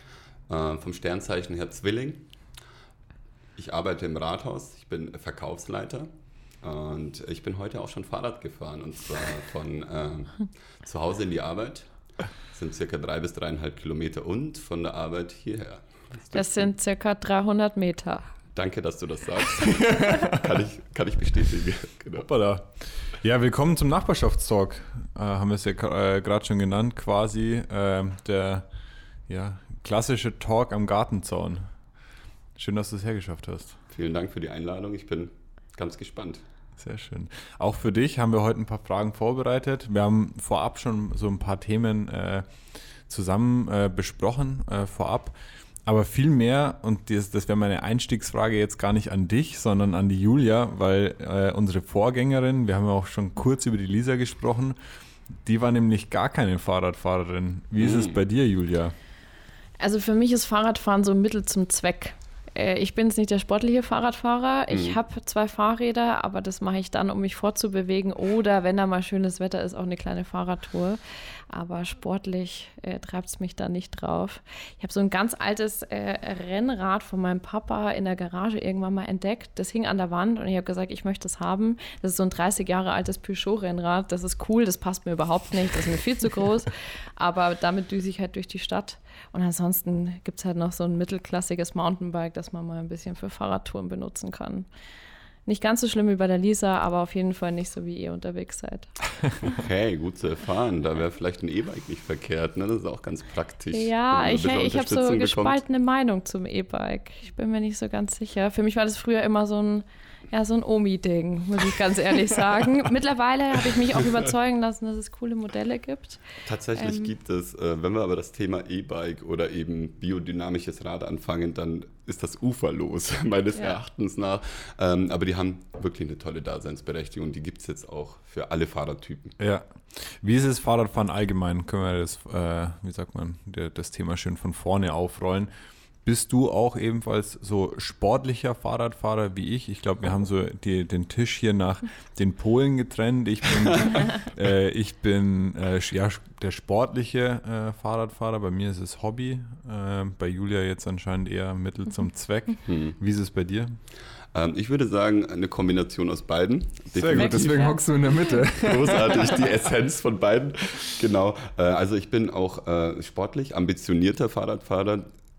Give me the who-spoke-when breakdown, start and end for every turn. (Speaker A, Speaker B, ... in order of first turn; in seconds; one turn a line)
Speaker A: 0.5-2.2
Speaker A: 3.6-6.1
Speaker A: 6.6-11.9
Speaker A: 12.5-16.7
Speaker B: 16.3-18.3
Speaker A: 18.5-22.3
Speaker C: 19.9-20.4
Speaker C: 22.2-28.7
Speaker C: 29.3-31.7
Speaker C: 32.5-33.8
Speaker A: 33.9-36.4
Speaker C: 36.8-54.8
Speaker C: 55.4-58.9
Speaker A: 57.8-58.2
Speaker B: 59.8-71.0
Speaker A: 64.7-65.0
Speaker B: 71.5-94.7
Speaker B: 95.5-98.9
Speaker A: 99.4-105.6
Speaker B: 103.7-116.2
Speaker A: 116.4-129.4
Speaker B: 116.7-117.1
Speaker C: 129.4-135.5
Speaker C: 136.0-153.7
Speaker A: 152.7-153.0
Speaker A: 154.3-157.9
Speaker C: 156.9-159.4
Speaker B: 157.1-158.3
Speaker A: 158.6-165.1